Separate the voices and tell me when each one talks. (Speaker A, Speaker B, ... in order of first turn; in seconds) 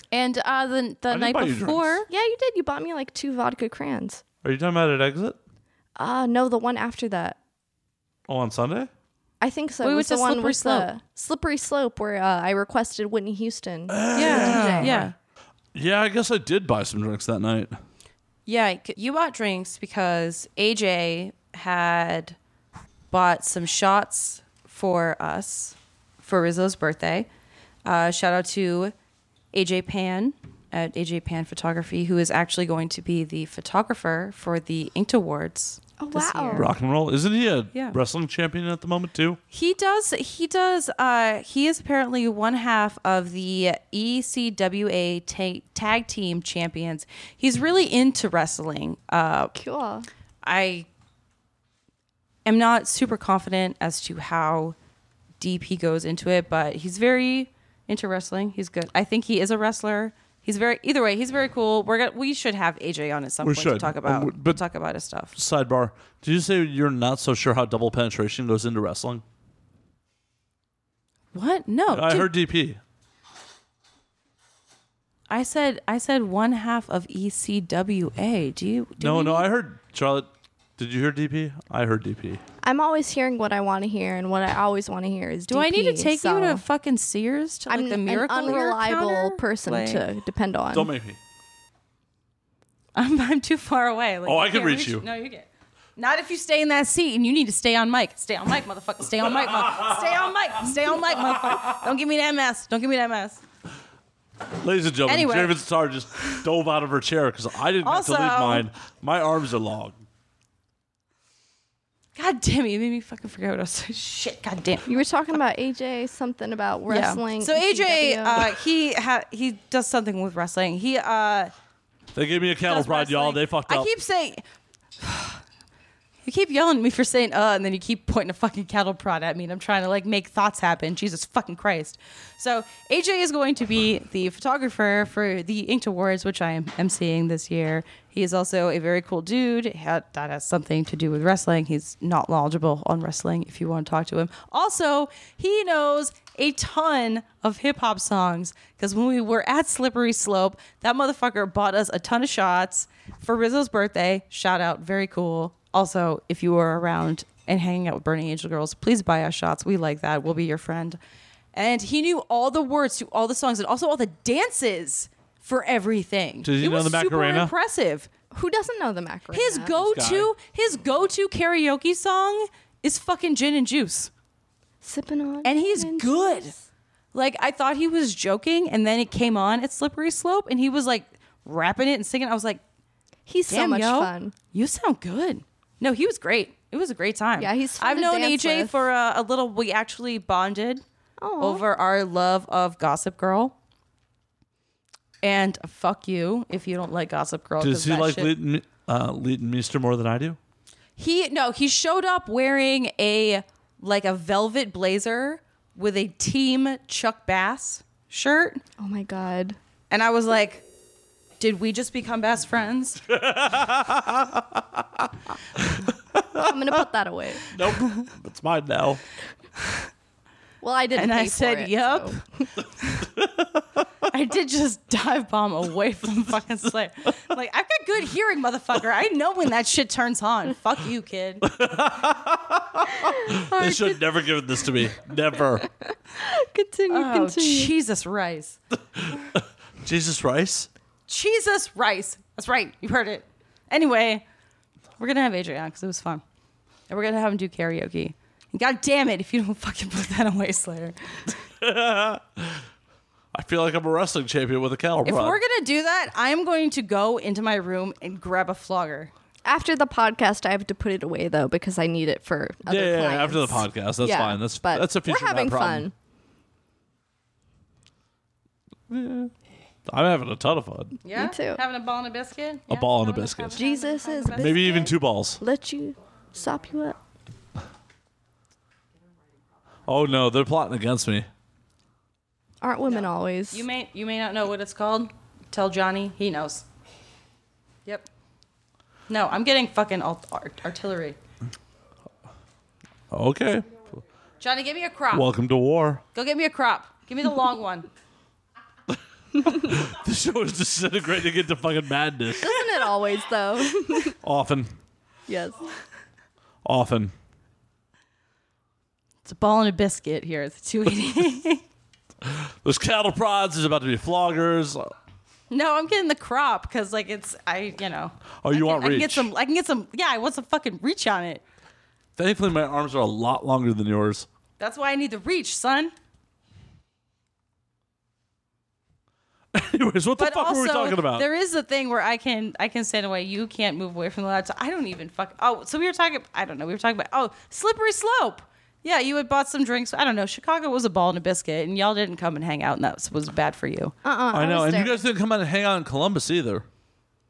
Speaker A: 0.1-2.1, 9.8-10.9, 14.1-15.1, 18.4-22.4, 23.1-27.3, 27.8-28.9, 29.5-36.7, 39.5-49.5, 50.4-50.9, 52.5-54.8, 55.4-65.3, 71.3-72.3, 75.3-79.5, 85.5-90.0, 92.9-103.4, 105.1-105.6, 107.8-108.7, 112.2-115.0, 116.9-121.5, 122.6-124.4, 125.0-125.4, 126.2-161.0, 161.5-168.1, 169.3-174.1, 175.4-176.5, 177.1-182.6, 183.5-190.8, 191.4-193.5, 195.2-198.3, 201.0-208.6, 209.9-210.6, 211.4-213.0, 220.9-222.2, 224.1-231.4, 236.9-238.6, 241.1-244.2, 245.0-246.2, 246.9-251.4, 255.0-259.1, 271.0-274.8, 282.9-286.6, 289.1-291.1, 294.4-295.2, 296.1-297.9, 309.2-311.6, 315.5-321.4, 324.6-325.9, 330.2-343.9
Speaker B: 1.1-2.0, 4.4-5.4, 8.3-8.9, 13.9-15.1, 15.7-17.8, 36.5-39.4, 63.4-64.6, 65.3-69.2, 71.9-72.8, 79.0-82.4, 90.7-91.2, 94.2-95.0, 104.6-110.0, 122.1-123.9, 166.4-167.5, 169.8-170.3, 197.6-200.4, 213.1-216.5, 217.5-219.0, 223.0-223.8, 231.4-235.7, 238.9-240.7, 251.6-252.6, 253.3-255.4, 262.7-265.9, 268.9-269.3, 269.9-271.0, 272.7-273.6, 274.3-275.4, 279.9-281.3, 293.1-293.8, 295.1-296.0, 299.4-302.8, 304.2-304.7, 306.6-307.1, 312.2-314.9, 318.4-319.3, 322.2-324.3, 329.5-331.3, 344.3-346.6
Speaker C: 2.1-4.2, 6.0-7.4, 9.4-15.1, 36.0-36.7, 49.5-50.1, 82.6-86.6, 87.7-90.9, 114.8-118.5, 168.3-169.8, 174.8-176.6, 183.3-184.3, 187.4-188.7, 191.2-191.6, 208.8-209.6, 216.3-217.5, 220.6-222.2, 233.6-233.9, 235.6-237.7, 259.4-265.9, 271.1-271.6, 273.5-277.0, 282.6-283.6, 302.4-304.2, 305.3-305.6, 344.0-345.0